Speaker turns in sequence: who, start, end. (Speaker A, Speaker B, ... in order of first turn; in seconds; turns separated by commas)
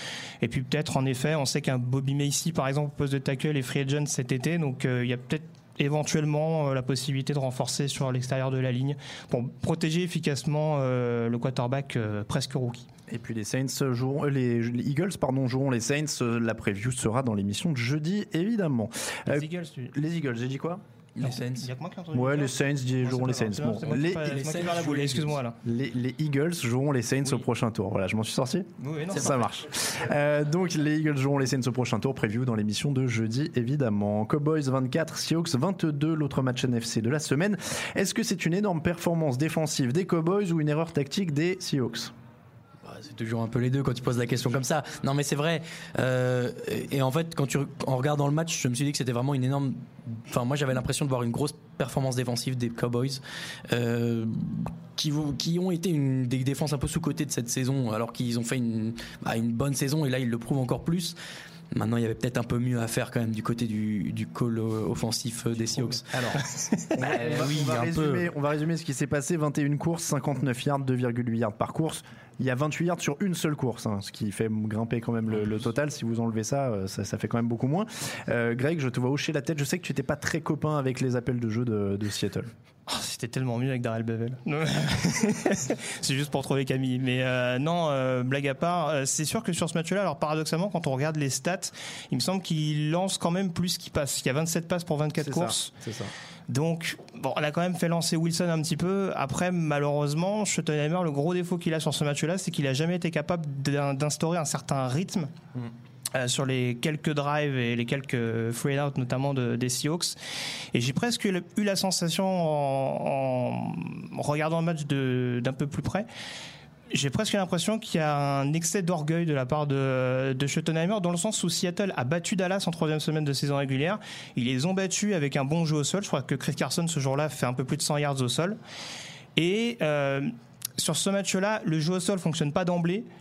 Speaker A: 0.4-12.9, Speaker B: 13.1-20.8, Speaker A: 19.3-19.9, Speaker C: 21.2-21.7, Speaker A: 21.2-25.6, Speaker B: 22.1-24.8, Speaker C: 24.2-25.4, Speaker B: 25.6-42.1, Speaker A: 28.8-29.4, Speaker C: 42.8-61.2, Speaker C: 61.7-66.0, Speaker A: 65.6-66.0, Speaker B: 66.1-66.4, Speaker C: 67.0-68.3, Speaker B: 67.0-82.5, Speaker A: 82.9-95.7, Speaker B: 95.2-96.1, Speaker A: 96.5-105.3, Speaker A: 106.1-110.2, Speaker A: 110.7-116.1, Speaker A: 116.9-128.6, Speaker A: 129.4-133.1